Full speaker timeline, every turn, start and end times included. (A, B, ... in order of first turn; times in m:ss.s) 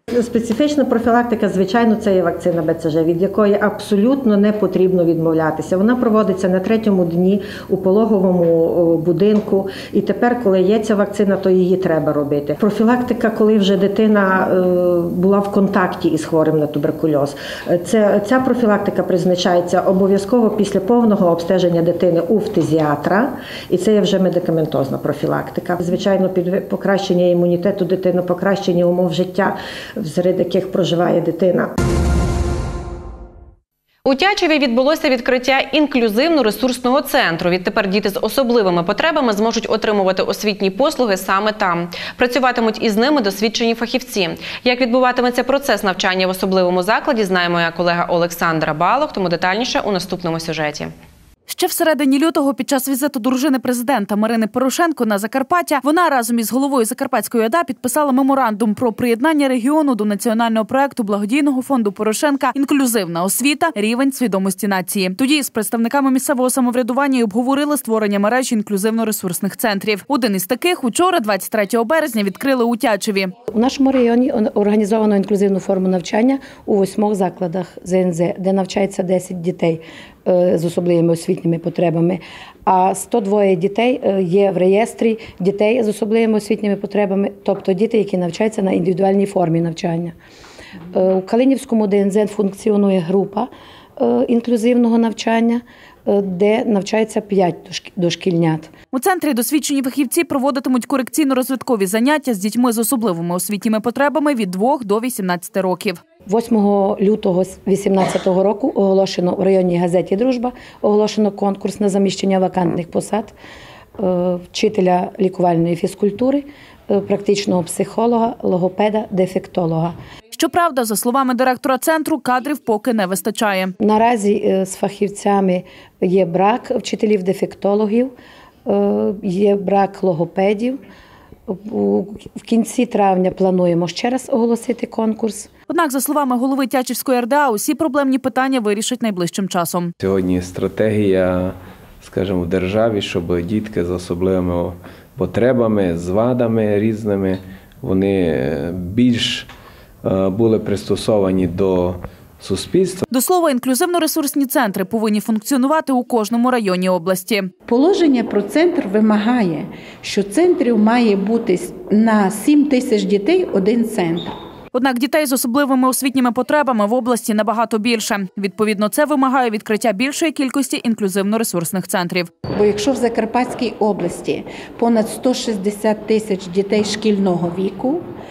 0:00.1-0:31.7 A
0:34.0-0:50.9 B
0:51.5-1:13.3 C
1:13.5-1:30.1 D
1:30.9-1:38.7 D
1:38.9-1:46.0 C
1:46.3-1:53.3 D
1:54.0-2:00.0 D
2:00.3-2:03.7 C
2:03.8-2:08.1 D
2:08.6-2:10.8 D
2:11.5-2:15.5 D
2:15.7-2:19.9 C
2:20.0-2:29.5 E
2:30.0-2:33.0 E
2:33.1-2:37.5 C
2:37.6-2:44.3 F
2:44.7-2:52.3 C
2:52.5-2:58.1 F